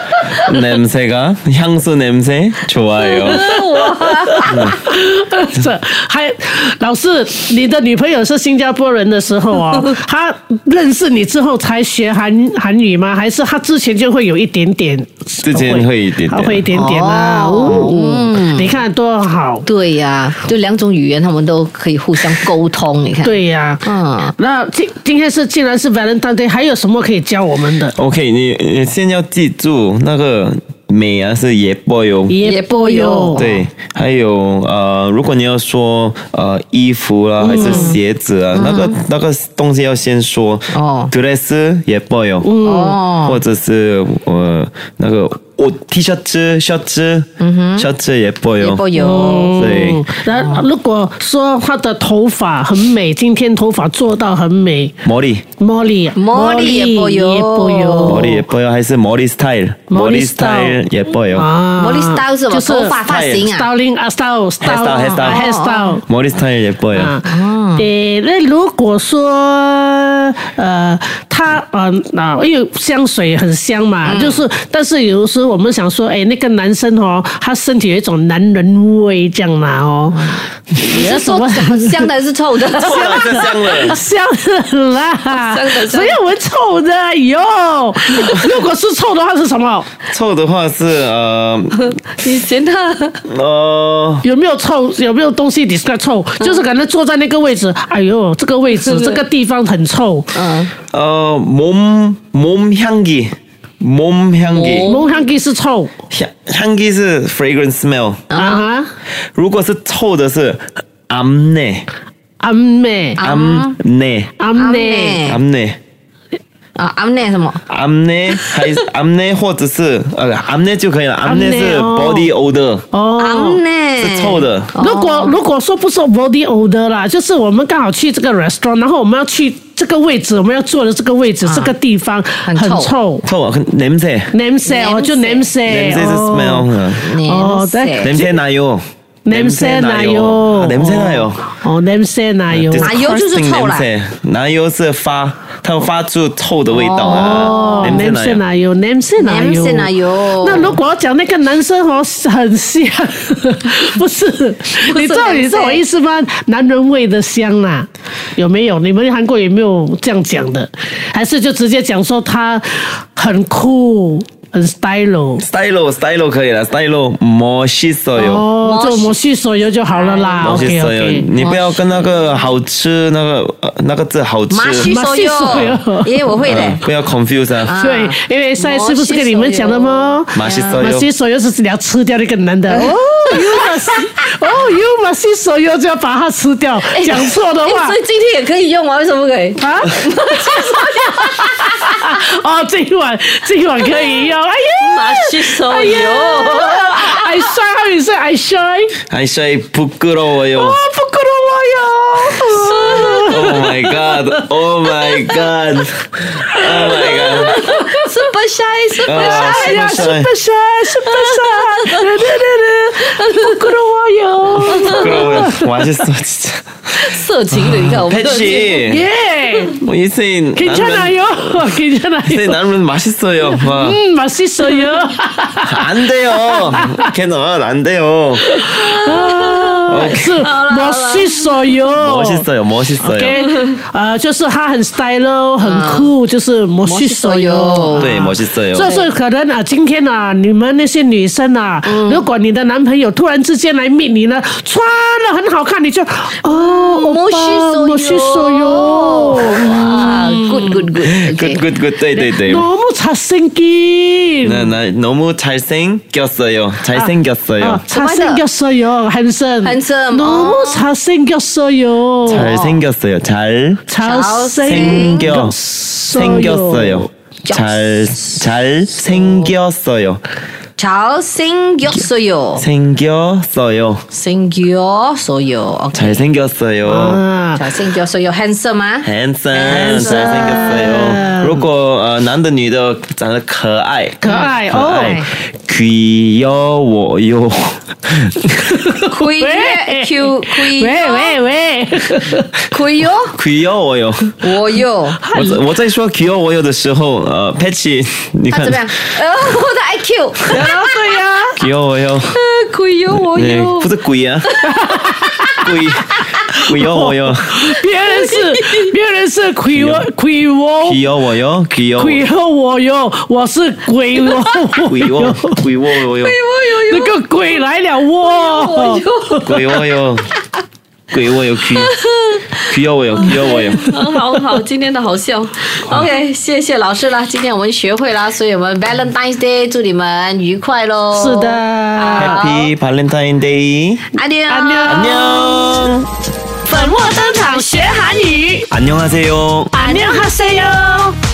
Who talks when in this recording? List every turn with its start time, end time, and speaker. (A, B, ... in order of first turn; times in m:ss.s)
0:00.4-0:03.4 A
0:03.0-0:04.8 B
0:03.2-0:19.6 C
0:04.4-0:04.8 A
0:15.4-0:16.7 A
0:16.7-0:18.8 B
0:19.6-0:24.3 B
0:23.2-0:23.8 C
0:24.4-0:28.0 C
0:27.9-0:32.4 A
0:32.3-0:33.5 C
0:32.4-0:33.6 B
0:33.3-0:42.5 A
0:37.4-0:38.0 C
0:37.5-0:38.0 B
0:38.5-0:38.9 B
0:40.7-0:41.1 B
0:42.4-0:43.0 C
0:42.6-0:43.4 B
0:43.2-0:49.0 A
0:47.4-0:47.9 B
0:48.6-0:49.8 B
0:48.9-0:54.9 C
0:49.6-0:50.0 A
0:50.3-0:50.6 B
0:55.0-0:55.4 A
0:55.6-0:58.4 C
0:56.1-0:58.4 B
0:58.0-1:01.5 A
0:59.9-1:00.8 C
1:01.3-1:06.0 C
1:01.8-1:03.7 B
1:03.0-1:03.5 A
1:04.6-1:05.4 A
1:04.7-1:06.0 B
1:06.1-1:07.2 A
1:06.9-1:07.2 C
1:07.2-1:07.9 B
1:07.8-1:22.1 C
1:14.0-1:14.4 B
1:20.1-1:23.5 B
1:22.8-1:24.0 A
1:22.8-1:30.0 C
1:25.3-1:26.2 B
1:30.0-1:31.9 A
1:31.7-1:33.2 B
1:33.2-1:34.2 A
1:34.2-1:40.3 C
1:36.4-1:36.6 B
1:38.8-1:39.2 B
1:40.3-1:40.7 B
1:40.9-1:44.9 A
1:44.4-1:45.2 B
1:44.8-1:45.9 C
1:46.1-1:48.3 A
1:48.3-1:48.6 B
1:48.3-1:48.9 C
1:49.1-1:51.8 A
1:52.4-1:53.2 C
1:53.2-1:53.8 B
1:53.2-1:54.3 A
1:54.4-1:55.2 C
1:54.5-1:55.4 B
1:55.2-1:55.8 A
1:56.8-1:57.6 B
1:57.7-2:02.8 A
2:01.2-2:02.3 C
2:02.9-2:03.6 C
2:03.2-2:05.4 B
2:04.0-2:04.7 A
2:04.8-2:13.2 C
2:11.4-2:11.7 B
2:12.4-2:12.9 B
2:13.2-2:14.3 A
2:14.3-2:18.2 C
2:14.6-2:15.5 B
2:15.6-2:17.1 A
2:17.0-2:18.4 B
2:18.0-2:21.5 A
2:19.2-2:22.9 C
2:22.5-2:28.4 A
2:22.8-2:23.9 B
2:26.7-2:28.0 B
2:27.1-2:45.4 C
2:29.2-2:30.8 B
2:34.8-2:35.8 B
2:45.4-2:48.5 A
2:48.2-2:51.3 C
2:48.6-2:49.2 B
2:49.9-2:50.8 B
2:50.4-2:54.9 A
2:51.3-2:52.4 B
2:54.5-2:56.8 B
2:54.8-2:56.1 C
2:56.4-2:57.7 A
2:57.6-3:00.9 B
2:57.8-3:08.0 C
3:00.3-3:01.1 A
3:02.7-3:04.3 B
3:06.9-3:12.0 B
3:09.6-3:19.0 C
3:13.8-3:14.2 B
3:14.8-3:17.4 B
3:19.1-3:20.8 A
3:20.6-3:24.4 C
3:22.3-3:23.3 B
3:23.1-3:27.7 A
3:26.6-3:27.6 C
3:27.1-3:30.1 B
3:29.0-3:30.3 A
3:29.1-3:35.7 C
3:31.0-3:32.4 B
3:33.0-3:33.6 B
3:34.6-3:35.3 B
3:34.7-3:36.6 A
3:36.9-3:38.8 B
3:37.5-3:39.0 A
3:38.8-3:39.8 C
3:39.8-3:41.6 A
3:40.5-3:42.6 C
3:42.3-3:44.0 A
3:43.5-3:47.1 C
3:45.6-3:48.6 A
3:48.5-3:52.4 C
3:48.6-3:51.7 B
3:49.9-3:50.4 A
3:52.0-3:53.4 A
3:53.0-4:10.8 C
3:55.6-3:56.1 B
3:56.8-3:58.2 B
3:58.0-3:58.9 A
3:58.8-3:59.1 B
4:01.8-4:02.2 B
4:06.4-4:11.6 B
4:11.0-4:12.7 A
4:12.1-4:14.7 C
4:14.4-4:17.8 A
4:16.9-4:22.5 C
4:17.9-4:18.4 B
4:19.6-4:20.9 B
4:22.2-4:23.8 A
4:22.3-4:22.8 B
4:23.9-4:27.1 C
4:24.0-4:25.3 B
4:24.6-4:25.6 A
4:26.1-4:30.2 A
4:27.4-4:28.4 B
4:29.1-4:29.5 B
4:30.8-4:32.6 B
4:32.6-4:34.0 A
4:34.1-4:36.2 B
4:35.9-4:37.2 A
4:36.8-4:37.6 C
4:37.5-4:40.9 B
4:39.0-4:48.8 A
4:39.6-4:41.6 C
4:44.2-4:45.2 C
4:44.3-4:45.2 B
4:48.9-4:52.5 C
4:49.0-4:51.4 B
4:52.7-4:53.4 B
4:53.3-4:54.4 A
4:54.4-4:55.2 B
4:55.2-4:55.6 C
4:55.3-4:58.9 A
4:58.5-5:00.8 B
5:00.5-5:01.6 C
5:01.6-5:02.4 A
5:02.3-5:03.9 B
5:03.1-5:04.5 A
5:04.4-5:05.6 B
5:04.7-5:05.7 C
5:05.6-5:07.6 A
5:06.7-5:11.0 C
5:07.9-5:08.9 B
5:09.7-5:10.0 A
5:10.8-5:12.2 A
5:12.0-5:15.6 C
5:14.8-5:16.4 A
5:16.2-5:17.6 B
5:16.8-5:19.7 C
5:18.2-5:19.6 B
5:19.4-5:20.3 A
5:21.1-5:21.9 A
5:21.8-5:32.7 B
5:22.6-5:23.9 A
5:23.2-5:24.4 C
5:31.1-5:32.4 C
5:32.1-5:34.1 A
5:34.1-5:35.3 B
5:34.5-5:35.6 C
5:34.9-5:36.1 A
5:36.7-5:38.4 B
5:36.7-5:38.7 C
5:38.7-5:39.7 A
5:39.7-5:41.1 C
5:39.8-5:40.8 B